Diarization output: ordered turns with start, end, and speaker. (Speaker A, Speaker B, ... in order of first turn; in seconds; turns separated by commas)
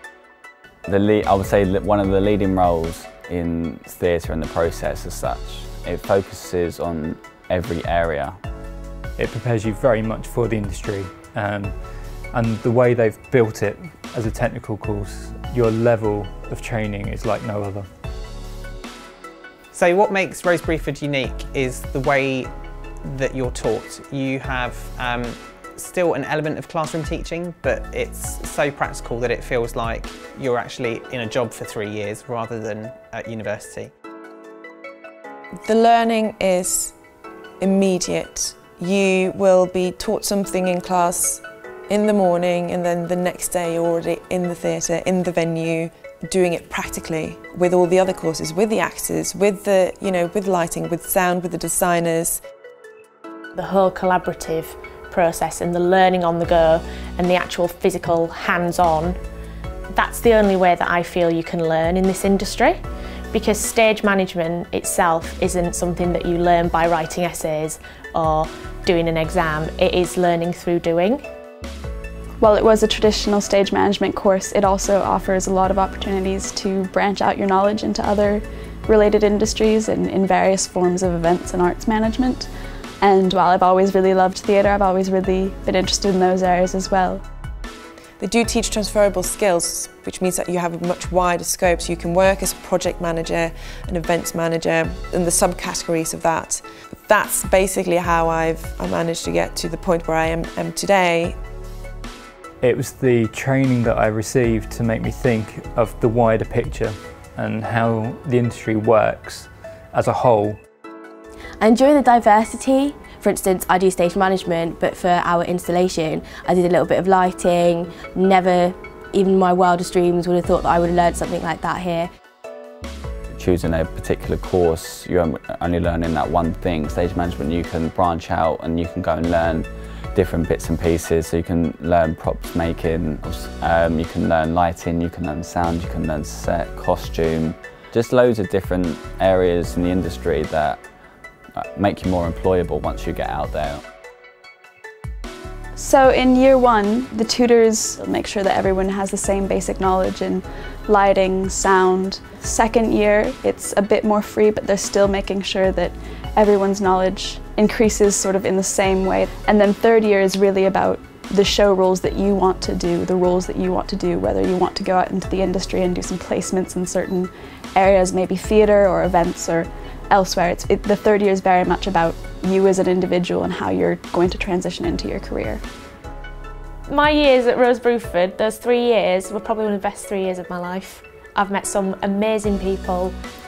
Speaker A: 0.8-8.4, Speaker B: 9.2-17.9, Speaker C: 19.7-33.9, Speaker D: 35.6-37.0, Speaker D: 37.6-52.4, Speaker E: 53.5-59.2, Speaker E: 59.9-62.8, Speaker E: 63.3-71.2, Speaker F: 72.4-82.5, Speaker F: 83.0-87.2, Speaker D: 88.2-101.4, Speaker B: 102.6-110.6, Speaker G: 111.6-122.1, Speaker A: 123.3-140.8, Speaker A: 141.5-143.8, Speaker F: 145.7-175.6, Speaker E: 176.9-183.2